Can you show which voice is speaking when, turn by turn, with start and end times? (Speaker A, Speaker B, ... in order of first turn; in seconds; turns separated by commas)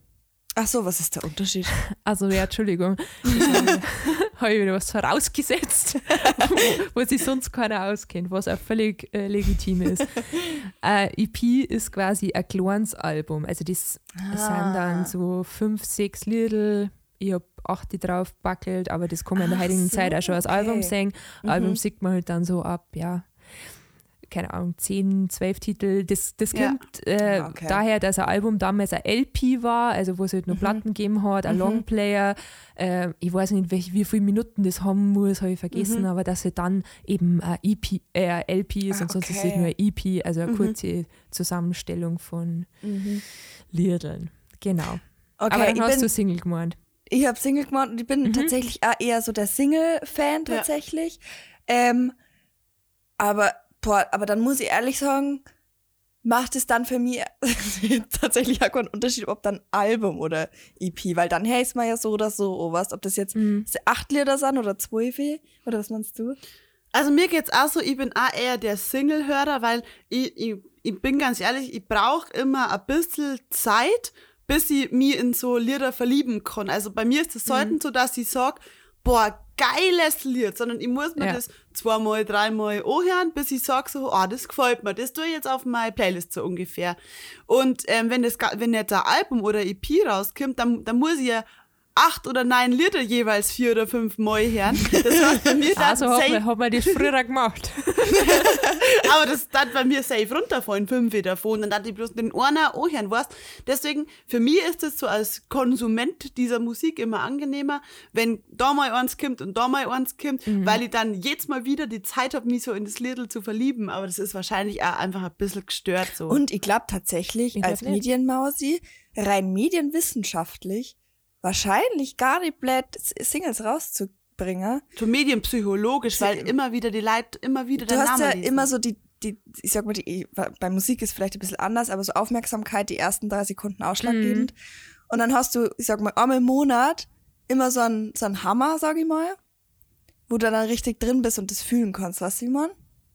Speaker A: 0.6-1.8, Speaker B: 2.0-23.3, Speaker A: 3.3-3.8, Speaker A: 14.2-15.1, Speaker A: 19.4-21.8, Speaker B: 24.3-42.8, Speaker C: 26.5-26.8, Speaker A: 27.2-27.8, Speaker A: 30.5-30.8, Speaker A: 31.5-31.8, Speaker C: 35.8-36.1, Speaker A: 38.9-39.7, Speaker C: 40.5-40.8, Speaker A: 42.8-43.2, Speaker B: 43.7-46.8, Speaker A: 45.4-46.1, Speaker A: 47.1-52.1, Speaker B: 48.2-48.5, Speaker A: 53.2-55.4, Speaker A: 56.2-66.4, Speaker B: 63.4-63.7, Speaker C: 66.9-97.1, Speaker A: 95.1-95.5, Speaker B: 95.7-98.7, Speaker C: 98.2-116.4, Speaker B: 110.5-110.8, Speaker A: 116.3-124.8, Speaker B: 117.5-118.0, Speaker C: 125.0-128.7, Speaker A: 126.2-126.5, Speaker A: 127.8-134.5, Speaker B: 134.0-134.5, Speaker A: 135.1-139.4, Speaker A: 140.3-142.7